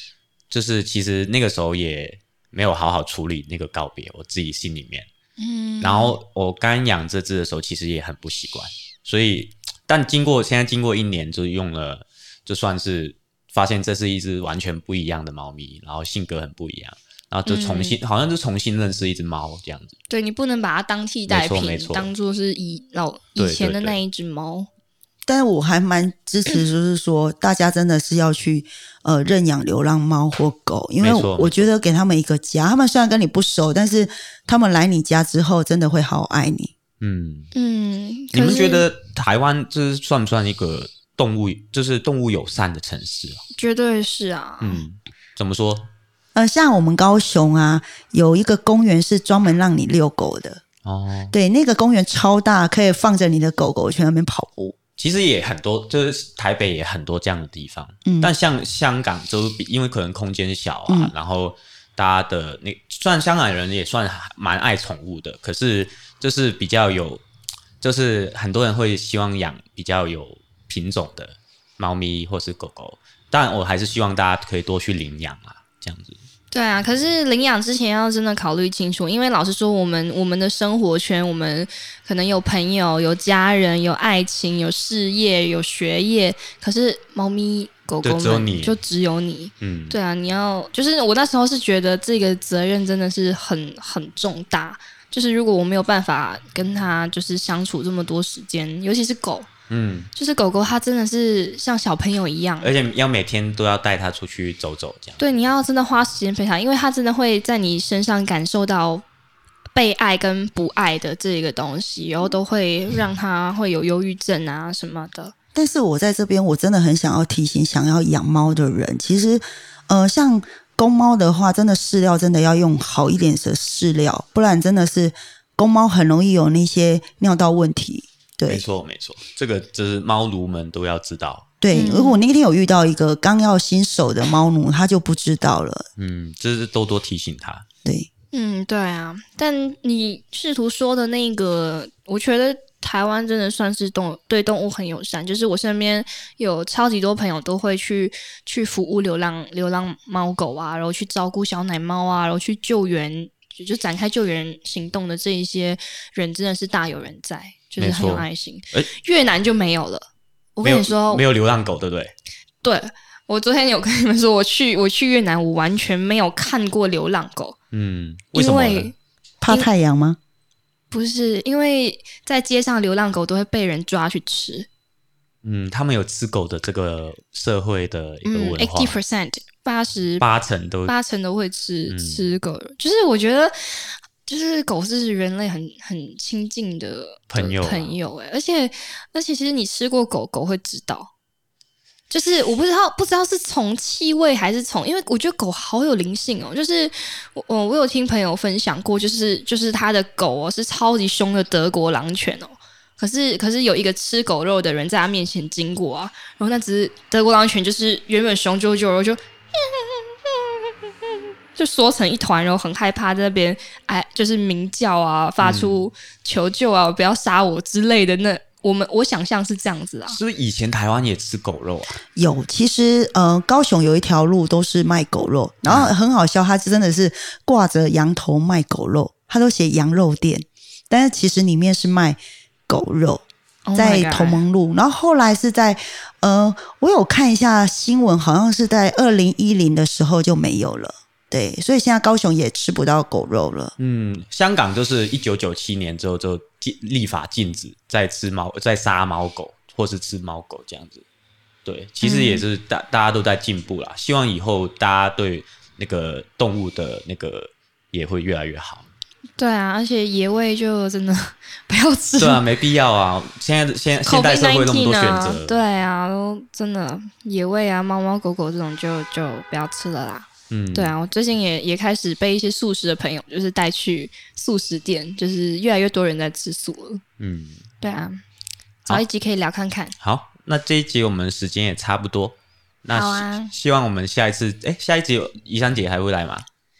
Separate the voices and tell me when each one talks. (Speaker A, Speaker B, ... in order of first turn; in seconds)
Speaker A: 0.5-5.1, 5.8-19.9, 21.3-22.1, 23.4-24.0, 31.0-31.7, 37.0-37.5, 38.3-43.4, 44.6-45.9, 50.8-51.3, 55.0-67.2, 67.8-76.2, 88.0-88.8, 89.6-90.0, 99.7-100.1, 102.6-105.2, 128.4-131.5, 136.0-137.6, 157.8-158.9, 160.6-162.1, 167.7-168.9, 175.4-179.0, 180.2-180.9, 181.9-182.3, 187.3-187.9, 215.4-215.8, 220.1-222.0, 225.7-225.9, 243.8-251.0, 251.6-258.9, 262.2-265.6, 270.5-270.9, 277.2-277.6, 280.0-286.4
Speaker B: 5.4-6.2, 17.4-18.0, 20.1-24.7, 37.5-38.9, 43.5-44.8, 76.5-99.5, 100.1-102.7, 105.2-109.0, 109.7-115.3, 131.7-132.2, 138.3-161.2, 162.6-167.6, 168.3-168.9, 170.9-174.7, 178.2-180.2, 180.8-191.1, 192.1-210.7, 211.5-220.2, 233.7-234.4, 252.0-252.4, 259.4-262.4, 264.0-277.0, 277.8-278.2, 278.9-279.9, 282.9-283.5
Speaker C: 25.3-36.7, 46.3-50.6, 51.3-54.8, 58.0-58.3, 115.5-128.6, 131.6-135.8, 169.4-170.2, 222.2-233.2, 233.8-243.7